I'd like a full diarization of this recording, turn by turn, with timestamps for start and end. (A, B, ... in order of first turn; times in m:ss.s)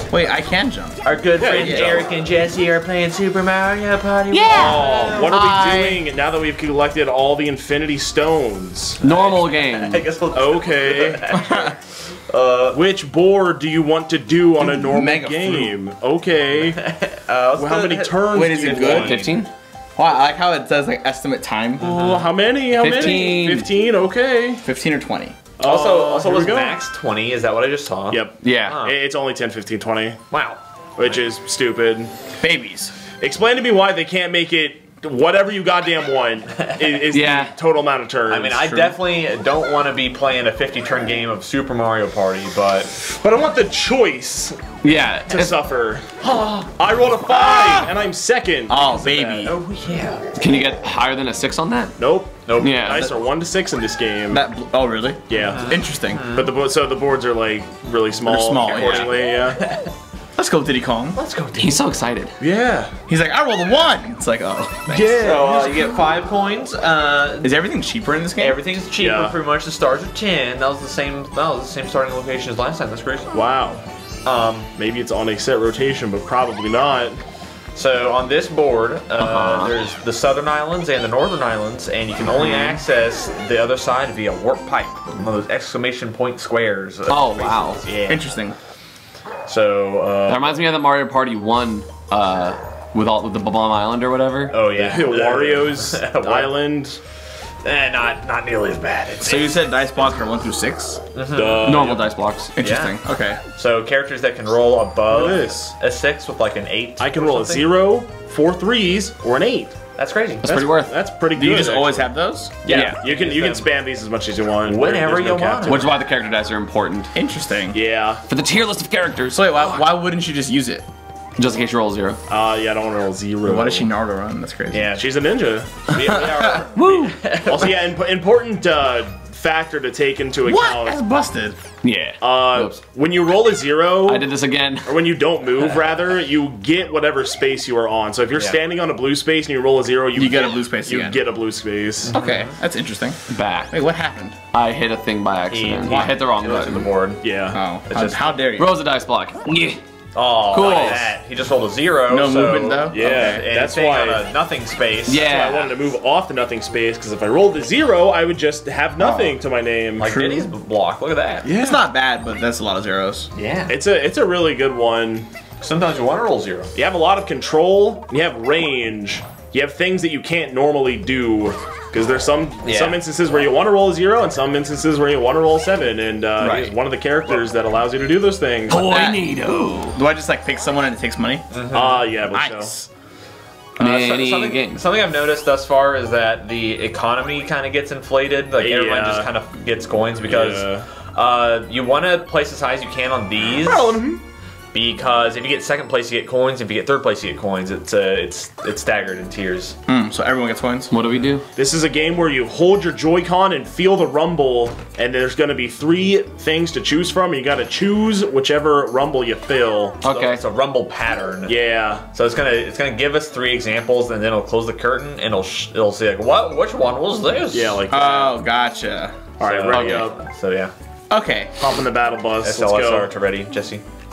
0:00.1-0:02.0 A
0:01.0-0:05.4 B
0:01.4-0:02.0 C
0:04.3-0:05.2 D
0:04.5-0:09.0 C
0:05.3-0:06.0 A
0:09.0-0:10.1 D
0:09.0-0:12.8 B
0:10.3-0:11.2 C
0:11.3-0:11.7 A
0:12.7-0:16.8 C
0:14.6-0:15.7 A
0:16.7-0:19.2 B
0:17.6-0:19.4 C
0:18.3-0:19.3 A
0:18.9-0:19.5 D
0:20.0-0:21.9 A
0:21.8-0:22.3 B
0:21.8-0:24.6 C
0:22.8-0:23.7 D
0:23.0-0:23.2 A
0:24.6-0:25.4 A
0:25.6-0:26.8 C
0:25.6-0:29.0 B
0:28.1-0:30.2 C
0:28.4-0:28.8 D
0:30.3-0:31.2 B
0:31.0-0:32.1 C
0:32.4-0:33.0 A
0:33.2-0:38.7 C
0:36.5-0:37.0 B
0:37.1-0:37.5 D
0:38.3-0:42.9 B
0:38.6-0:39.0 A
0:43.2-0:44.7 C
0:44.8-0:45.6 D
0:45.2-0:46.1 C
0:46.2-0:46.7 B
0:46.8-0:49.5 C
0:47.3-0:47.9 A
0:48.7-0:49.6 A
0:49.4-0:50.3 B
0:50.4-0:52.0 D
0:52.0-0:54.4 C
0:52.5-0:53.1 B
0:52.6-0:53.1 D
0:54.3-0:56.3 A
0:55.3-0:55.7 C
0:55.3-0:56.5 B
0:56.3-0:59.6 C
0:58.3-0:59.2 A
0:58.6-0:59.9 B
1:00.4-1:01.2 A
1:01.2-1:01.9 B
1:01.5-1:02.3 D
1:02.4-1:02.9 C
1:03.1-1:05.3 A
1:04.9-1:05.8 C
1:05.0-1:07.6 B
1:07.4-1:08.6 A
1:08.4-1:13.3 B
1:09.0-1:09.4 C
1:13.3-1:13.8 C
1:14.2-1:14.7 B
1:14.8-1:17.2 C
1:17.7-1:28.3 B
1:19.2-1:19.7 D
1:22.3-1:22.8 D
1:27.1-1:27.8 D
1:28.1-1:28.6 A
1:29.5-1:30.6 B
1:30.3-1:35.0 D
1:34.5-1:36.5 B
1:34.8-1:37.0 C
1:37.6-1:39.6 B
1:39.2-1:41.0 A
1:41.1-1:42.0 B
1:41.3-1:42.1 C
1:41.6-1:42.5 D
1:42.6-1:43.4 A
1:42.6-1:43.0 B
1:43.6-1:47.7 B
1:45.1-1:45.7 C
1:47.0-1:49.8 C
1:50.0-1:50.6 B
1:50.4-1:50.9 D
1:50.5-1:52.1 C
1:51.3-1:52.6 A
1:52.6-1:53.7 B
1:52.7-1:55.9 C
1:52.7-1:53.0 D
1:54.6-1:56.0 B
1:55.6-1:57.1 D
1:57.1-1:57.8 A
1:57.7-1:58.2 C
1:58.3-1:59.8 D
1:59.3-2:00.8 A
2:01.4-2:02.2 D
2:02.3-2:03.9 C
2:03.4-2:04.9 A
2:04.7-2:05.1 B
2:04.9-2:05.7 C
2:05.9-2:07.8 B
2:06.8-2:07.2 D
2:07.5-2:11.0 C
2:10.5-2:11.6 A
2:11.8-2:12.8 D
2:12.2-2:14.3 C
2:14.1-2:15.0 D
2:14.8-2:22.2 C
2:18.3-2:18.6 B
2:20.2-2:21.2 A
2:22.0-2:22.6 B
2:22.1-2:24.4 A
2:23.3-2:23.7 D
2:24.5-2:26.9 D
2:25.5-2:27.3 B
2:27.2-2:27.6 C
2:27.5-2:28.8 A
2:27.9-2:28.4 B
2:28.6-2:29.8 D
2:30.2-2:35.2 B
2:30.5-2:31.1 D
2:32.1-2:33.3 A
2:32.9-2:34.3 C
2:35.1-2:35.8 D
2:35.2-2:40.1 C
2:39.0-2:39.4 A
2:40.0-2:41.5 B
2:40.0-2:40.5 A
2:41.4-2:43.3 A
2:43.4-2:43.7 B
2:43.7-2:45.3 C
2:45.6-2:46.7 B
2:46.8-2:58.9 C
2:52.6-2:53.0 B
2:56.4-2:56.7 A
2:58.7-3:00.0 D
2:58.7-2:59.2 A
2:59.9-3:01.5 A
3:01.5-3:02.1 B
3:01.7-3:02.7 C
3:02.3-3:02.9 A
3:03.8-3:14.0 B
3:03.8-3:04.8 D
3:08.6-3:09.3 C
3:10.2-3:10.8 C
3:13.6-3:14.2 C
3:14.7-3:19.8 B
3:19.9-3:20.9 A
3:20.9-3:21.4 D
3:21.6-3:30.0 C
3:30.0-3:30.4 D
3:30.0-3:37.8 B
3:31.5-3:32.1 C
3:37.5-3:38.3 C
3:37.9-3:39.3 A
3:39.4-3:40.2 C
3:39.4-3:40.7 B
3:39.7-3:40.1 D
3:41.1-3:41.5 A
3:41.6-3:43.1 C
3:42.4-3:43.8 B